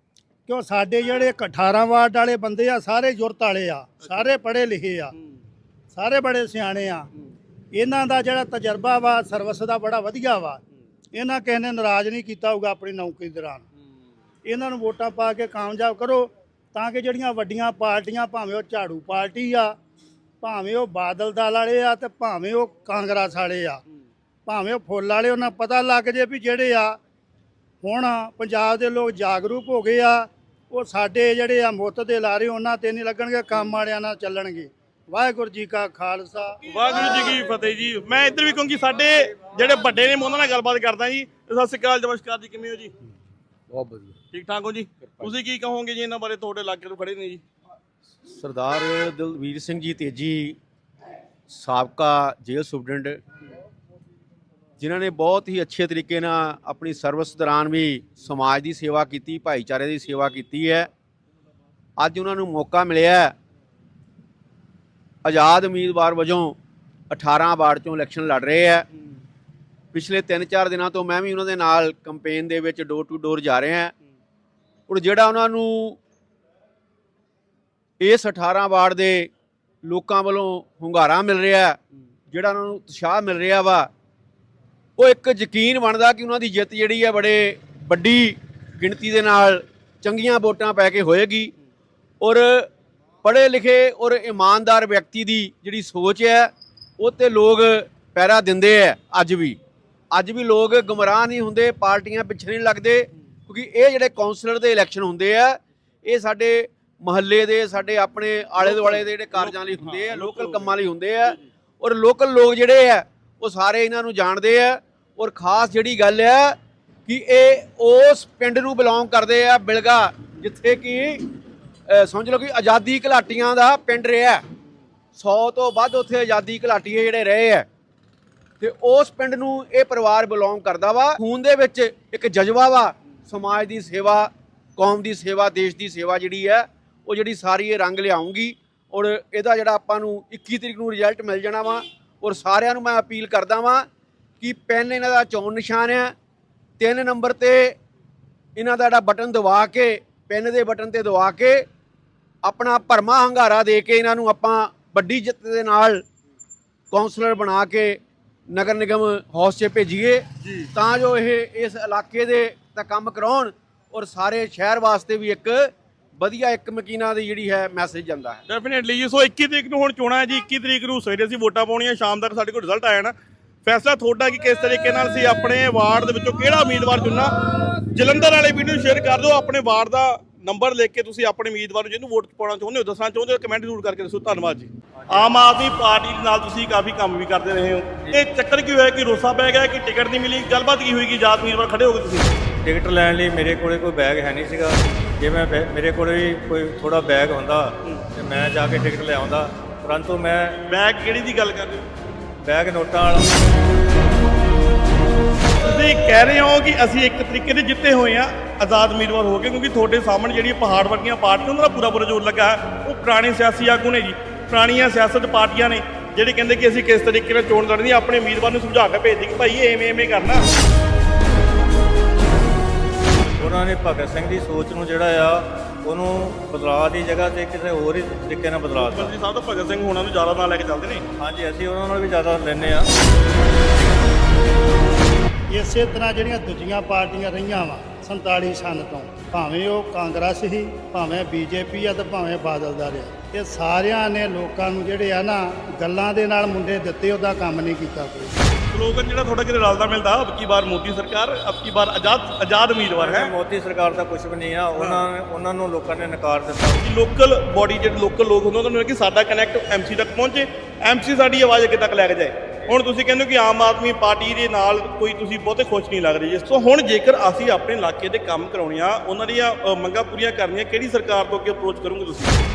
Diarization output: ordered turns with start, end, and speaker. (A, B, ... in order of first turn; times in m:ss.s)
0:00.5-0:05.1 A
0:05.2-0:05.4 B
0:05.9-0:07.1 A
0:07.7-0:10.6 A
0:11.1-0:13.6 A
0:14.4-0:19.7 A
0:20.4-0:23.8 A
0:24.4-0:27.0 A
0:27.8-0:36.6 A
0:36.7-0:42.9 B
0:43.7-0:44.1 C
0:44.3-0:47.4 B
0:48.2-0:50.6 C
0:51.5-0:53.2 C
0:54.8-1:00.9 C
1:02.0-1:03.3 C
1:05.2-1:06.6 C
1:07.1-1:08.9 C
1:09.9-1:13.9 C
1:14.9-1:16.0 C
1:18.0-1:19.3 C
1:19.8-1:23.9 C
1:25.0-1:31.5 C
1:32.2-1:32.7 C
1:33.2-1:39.6 C
1:40.1-2:01.2 C
1:48.6-1:50.8 B
2:01.9-2:04.4 C
2:05.1-2:07.7 C
2:08.6-2:23.9 C
2:24.4-2:26.1 C
2:26.8-2:27.8 C
2:28.6-2:31.6 C
2:32.4-2:36.0 C
2:36.9-2:48.4 C
2:40.4-2:40.7 B
2:48.5-3:12.4 B
3:05.0-3:05.8 D
3:08.0-3:08.2 D
3:12.6-3:20.6 D
3:20.7-3:21.9 B
3:22.4-3:23.3 D
3:25.6-3:40.5 B
3:43.4-3:49.1 D
3:48.7-3:51.0 B
3:51.2-3:52.9 D
3:55.5-4:08.4 A
4:08.7-4:13.3 B
4:13.0-4:16.8 D
4:16.8-4:32.4 B